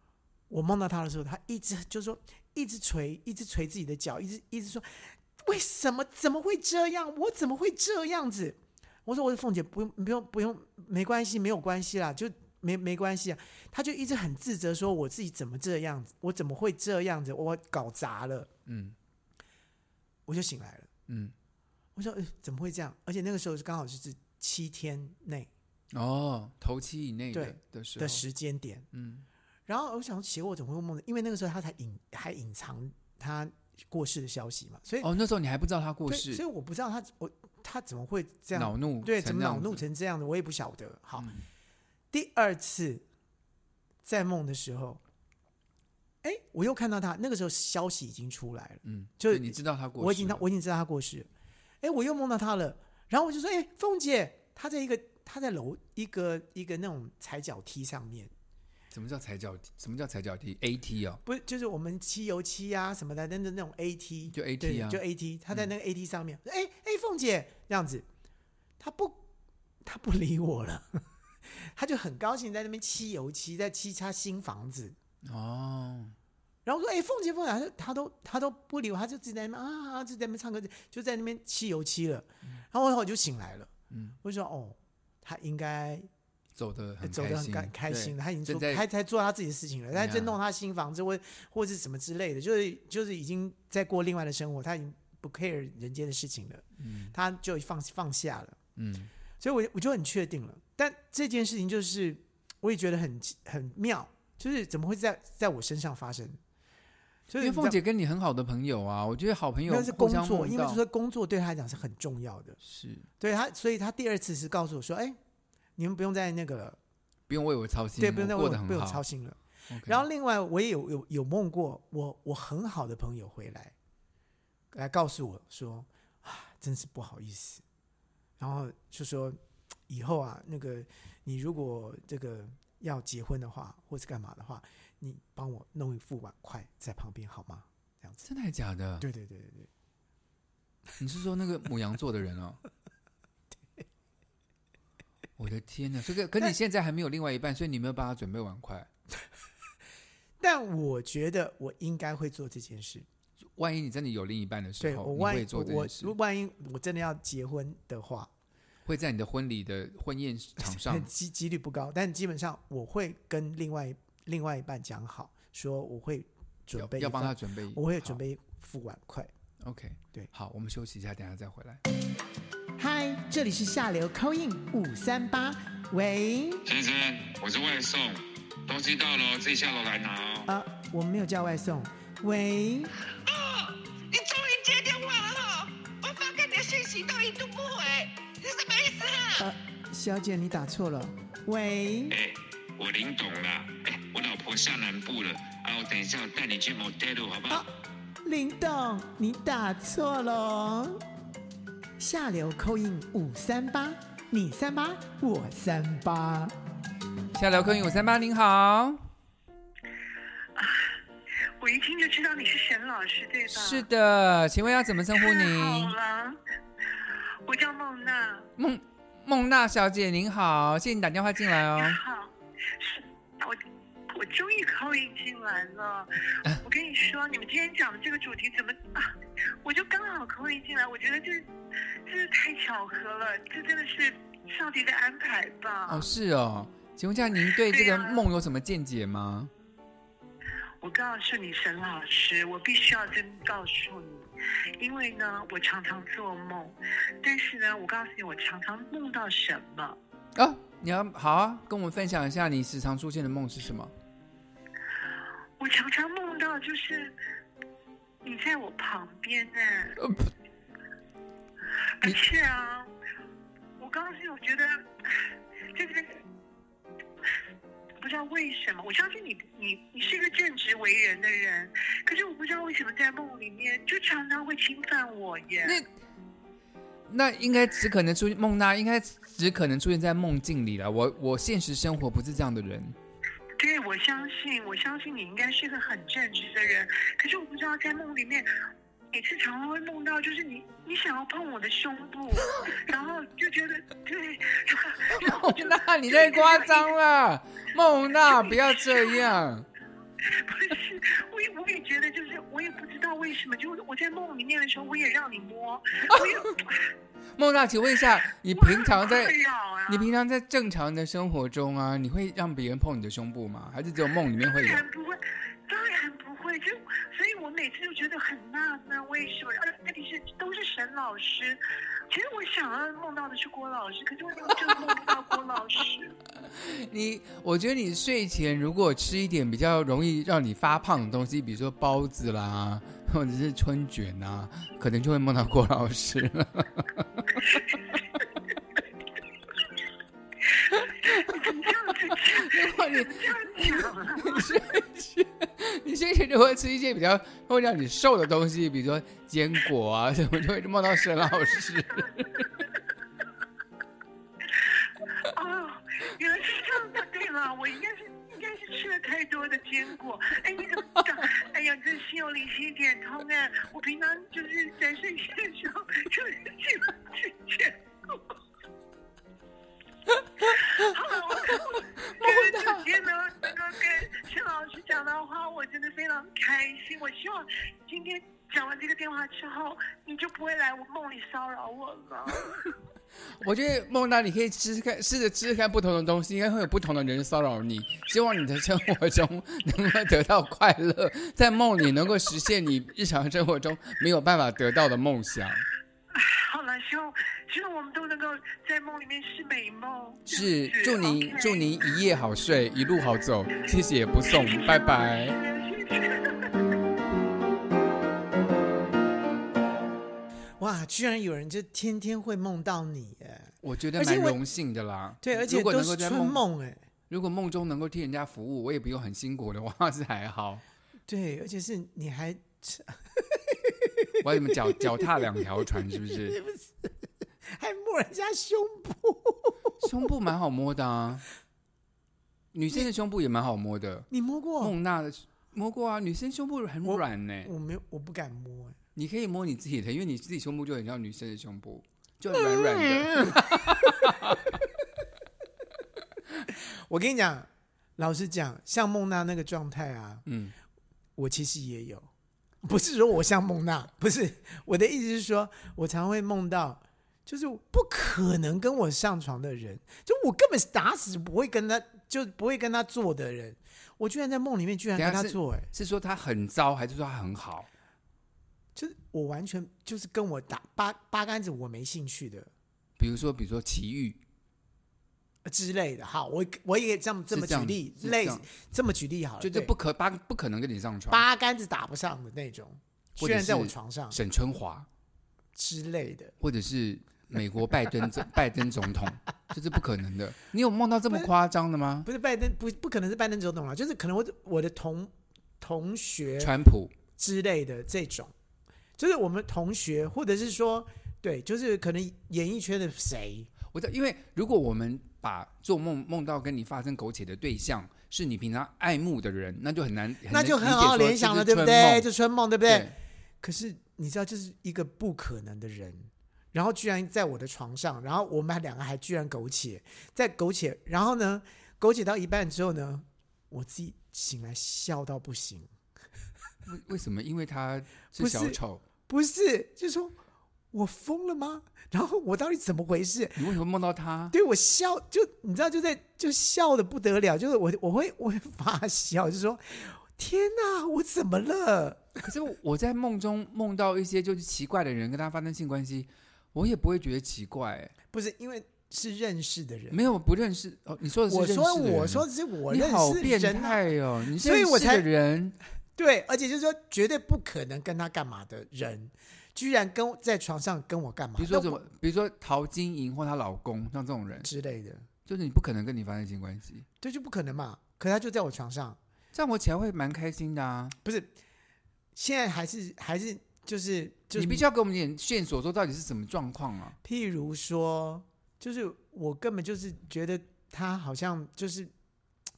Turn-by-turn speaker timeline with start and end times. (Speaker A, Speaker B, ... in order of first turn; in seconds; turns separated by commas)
Speaker A: 0.5-18.5, Speaker B: 18.6-18.9, Speaker A: 20.3-20.9, Speaker B: 21.1-21.3, Speaker A: 21.9-25.5, Speaker B: 25.9-28.2, Speaker A: 27.3-28.9, Speaker B: 28.9-29.2, Speaker A: 29.7-35.1, Speaker B: 35.0-36.4, Speaker A: 36.1-41.3, Speaker B: 38.5-39.8, Speaker B: 41.2-41.4, Speaker A: 42.1-43.0, Speaker A: 44.0-45.0, Speaker A: 46.2-51.3, Speaker B: 48.8-50.4, Speaker A: 51.8-58.3, Speaker B: 58.9-61.2, Speaker A: 61.2-68.0, Speaker B: 64.3-65.0, Speaker A: 68.8-69.2, Speaker A: 69.8-71.0, Speaker A: 71.5-75.0, Speaker B: 75.2-76.1, Speaker A: 76.6-83.7, Speaker B: 83.9-84.2, Speaker A: 84.2-86.1, Speaker B: 86.5-88.8, Speaker A: 87.0-98.6, Speaker B: 89.9-90.3, Speaker B: 96.8-97.1, Speaker B: 98.8-99.1, Speaker A: 99.4-106.4, Speaker A: 107.3-107.8, Speaker B: 107.4-110.8, Speaker A: 109.7-112.6, Speaker B: 112.6-113.0, Speaker A: 113.2-115.2, Speaker A: 115.8-116.8, Speaker B: 117.3-119.0, Speaker A: 118.0-123.7, Speaker B: 119.7-120.0, Speaker A: 124.7-127.6, Speaker A: 128.4-129.4, Speaker A: 129.9-138.2, Speaker B: 138.2-139.1, Speaker A: 139.0-139.7, Speaker B: 141.0-142.6, Speaker B: 145.4-148.9, Speaker A: 150.4-153.1, Speaker B: 153.5-156.1, Speaker A: 154.8-158.3, Speaker B: 158.8-161.1, Speaker A: 160.6-169.3, Speaker B: 166.7-168.2, Speaker B: 169.6-171.8, Speaker A: 172.8-176.6, Speaker C: 176.7-180.5, Speaker A: 180.5-182.9, Speaker D: 183.2-189.4, Speaker A: 189.4-192.2, Speaker C: 192.1-197.6, Speaker A: 198.2-201.0, Speaker A: 202.0-206.5, Speaker B: 207.3-209.0, Speaker E: 210.6-210.9, Speaker E: 211.6-213.8, Speaker B: 213.5-215.9, Speaker E: 215.1-216.4, Speaker E: 217.4-218.5, Speaker B: 218.6-222.0, Speaker E: 221.7-231.5, Speaker E: 232.0-236.1, Speaker B: 235.9-239.5, Speaker E: 237.7-238.2, Speaker E: 240.8-244.3, Speaker E: 244.8-250.0, Speaker B: 250.3-253.9, Speaker E: 255.6-257.1, Speaker E: 258.2-260.0, Speaker B: 260.0-260.3, Speaker E: 262.0-262.9, Speaker E: 263.8-266.2, Speaker E: 268.0-275.8, Speaker B: 277.1-283.0, Speaker E: 283.6-288.5, Speaker E: 289.1-296.9, Speaker B: 295.1-299.6, Speaker E: 298.3-299.3, Speaker E: 300.2-306.9, Speaker B: 306.1-306.5, Speaker B: 307.4-309.4, Speaker E: 308.5-310.1, Speaker B: 309.9-314.8, Speaker E: 314.5-326.2, Speaker B: 326.5-337.6, Speaker E: 340.6-344.5, Speaker B: 341.0-352.5, Speaker E: 355.2-368.3, Speaker E: 370.4-382.6, Speaker B: 372.2-372.8, Speaker B: 383.4-395.6, Speaker E: 396.1-401.7, Speaker B: 400.2-405.4, Speaker E: 404.2-406.7, Speaker A: 410.6-414.4, Speaker B: 413.6-416.4, Speaker A: 415.2-416.8, Speaker B: 417.1-420.6, Speaker A: 421.1-425.4, Speaker B: 424.2-426.4, Speaker A: 425.9-429.8, Speaker B: 429.8-431.2, Speaker B: 432.5-434.1, Speaker A: 434.1-434.7, Speaker B: 434.6-437.5, Speaker A: 436.8-438.8, Speaker B: 438.9-444.6, Speaker A: 446.6-450.2, Speaker B: 450.2-450.5, Speaker A: 451.2-452.1, Speaker A: 452.6-465.7, Speaker B: 464.9-467.7, Speaker A: 468.8-472.5, Speaker B: 473.0-474.2, Speaker A: 475.4-479.7, Speaker B: 477.3-478.4, Speaker B: 479.4-481.2, Speaker A: 481.1-484.2, Speaker B: 483.2-484.9, Speaker A: 485.6-486.3, Speaker B: 486.4-492.1, Speaker A: 492.0-496.5, Speaker B: 496.4-496.9, Speaker A: 497.2-498.3, Speaker A: 499.0-503.5, Speaker B: 503.7-512.1, Speaker A: 510.3-525.7, Speaker B: 512.6-512.9, Speaker B: 526.6-528.8, Speaker A: 528.1-530.2, Speaker A: 530.7-533.5, Speaker B: 533.4-534.3, Speaker A: 534.3-542.2, Speaker B: 542.2-547.9, Speaker A: 548.1-550.0, Speaker B: 549.9-555.6, Speaker A: 551.3-553.8, Speaker A: 554.3-555.0, Speaker A: 556.0-561.8, Speaker B: 561.4-564.5, Speaker A: 564.4-565.1, Speaker B: 565.2-566.9, Speaker A: 567.0-569.0, Speaker B: 569.3-571.0, Speaker A: 571.0-571.3, Speaker A: 572.1-574.6, Speaker B: 574.3-577.0, Speaker A: 577.0-581.9